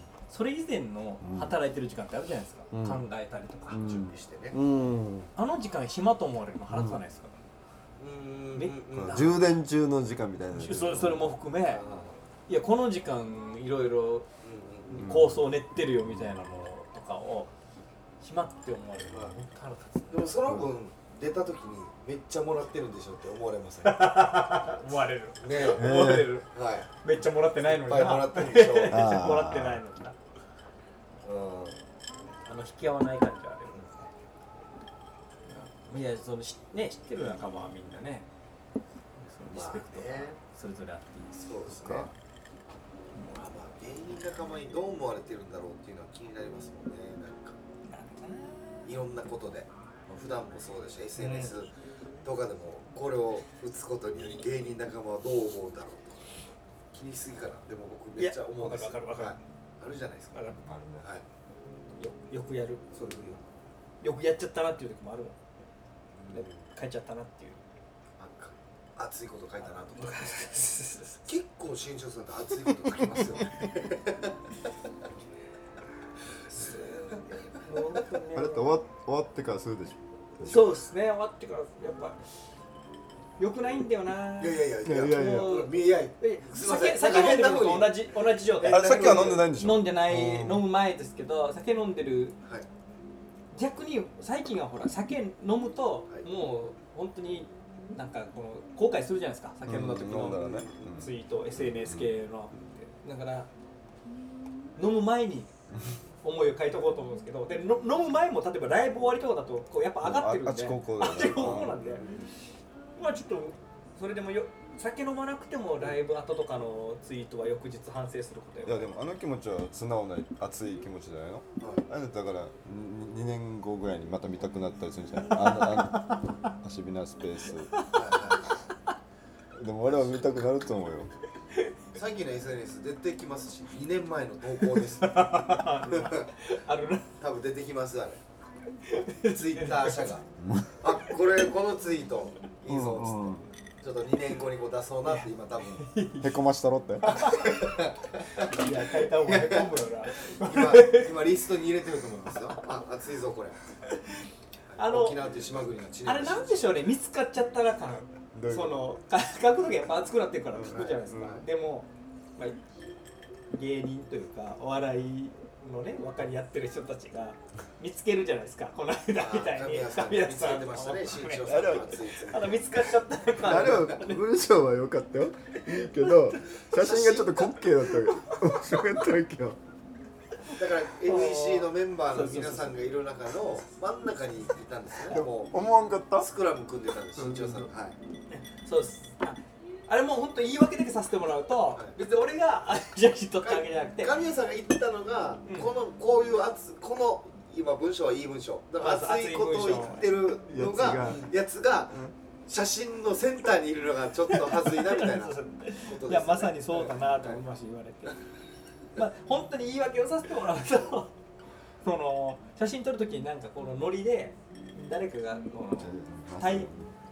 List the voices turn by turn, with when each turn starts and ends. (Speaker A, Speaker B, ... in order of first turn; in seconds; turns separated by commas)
Speaker A: 0.3-3.8, Speaker B: 1.2-1.6, Speaker B: 2.7-3.0, Speaker B: 3.7-5.3, Speaker C: 3.7-4.6, Speaker A: 5.3-7.3, Speaker B: 6.7-7.0, Speaker C: 8.0-9.3, Speaker A: 8.5-9.4, Speaker B: 8.9-11.3, Speaker A: 10.5-11.8, Speaker C: 11.7-12.2, Speaker A: 12.5-14.2, Speaker C: 14.4-15.1, Speaker A: 14.9-17.5, Speaker B: 15.0-15.5, Speaker A: 18.2-20.4, Speaker C: 19.1-19.4, Speaker C: 20.1-24.1, Speaker A: 23.8-26.5, Speaker C: 25.4-26.9, Speaker B: 25.6-26.3, Speaker A: 27.0-30.2, Speaker C: 27.6-29.1, Speaker B: 28.9-29.8, Speaker C: 31.2-31.8, Speaker A: 32.4-34.1, Speaker A: 35.5-38.2, Speaker A: 39.2-42.1, Speaker C: 39.5-40.4, Speaker C: 41.4-42.1, Speaker C: 43.1-47.5, Speaker A: 47.9-48.9, Speaker C: 48.8-51.7, Speaker A: 51.2-51.5, Speaker C: 52.2-56.4, Speaker C: 56.9-61.2, Speaker A: 58.2-59.4, Speaker A: 60.3-60.7, Speaker B: 60.6-61.1, Speaker A: 61.9-63.4, Speaker C: 62.9-63.4, Speaker A: 64.0-65.4, Speaker C: 66.1-66.7, Speaker A: 66.3-67.6, Speaker C: 68.2-70.4, Speaker A: 69.9-71.2, Speaker C: 71.2-74.5, Speaker A: 76.5-78.8, Speaker C: 76.6-77.2, Speaker B: 78.3-80.7, Speaker A: 80.4-82.2, Speaker A: 83.4-92.4, Speaker C: 84.4-89.5, Speaker B: 84.8-85.6, Speaker B: 88.6-90.7, Speaker A: 93.5-103.5, Speaker B: 99.7-102.2, Speaker C: 100.2-100.7, Speaker A: 104.8-105.5, Speaker A: 106.2-112.2, Speaker B: 110.0-112.0, Speaker C: 111.8-112.3, Speaker A: 112.9-118.9, Speaker B: 118.7-127.7, Speaker C: 121.6-121.8, Speaker A: 125.3-126.5, Speaker C: 127.9-128.6, Speaker B: 129.5-131.1, Speaker C: 129.9-130.2, Speaker C: 131.9-136.3, Speaker A: 134.6-137.1, Speaker C: 137.2-138.2, Speaker A: 138.8-140.1, Speaker C: 139.2-140.2, Speaker B: 140.4-140.7, Speaker C: 140.8-145.9, Speaker B: 142.7-143.4, Speaker A: 145.1-146.4, Speaker B: 146.2-147.1, Speaker A: 147.0-147.6, Speaker C: 147.2-153.6, Speaker A: 148.4-151.2, Speaker C: 154.7-156.8, Speaker A: 154.8-155.2, Speaker A: 156.0-162.6, Speaker B: 158.3-158.8, Speaker B: 160.5-161.3, Speaker C: 160.6-161.4, Speaker A: 163.5-174.2, Speaker C: 169.1-172.6, Speaker B: 171.5-171.9, Speaker B: 173.4-179.6, Speaker C: 173.5-174.0, Speaker A: 175.6-176.5, Speaker C: 176.7-177.5, Speaker A: 177.9-178.8, Speaker A: 180.5-182.8, Speaker C: 180.6-185.6, Speaker B: 185.1-186.3, Speaker C: 186.1-187.9, Speaker B: 187.1-187.7, Speaker A: 188.3-194.2, Speaker C: 193.4-207.4, Speaker A: 195.4-195.7, Speaker A: 198.8-200.3, Speaker B: 200.5-201.3, Speaker A: 204.3-208.2, Speaker A: 208.9-211.1, Speaker A: 211.8-216.7, Speaker B: 215.7-216.9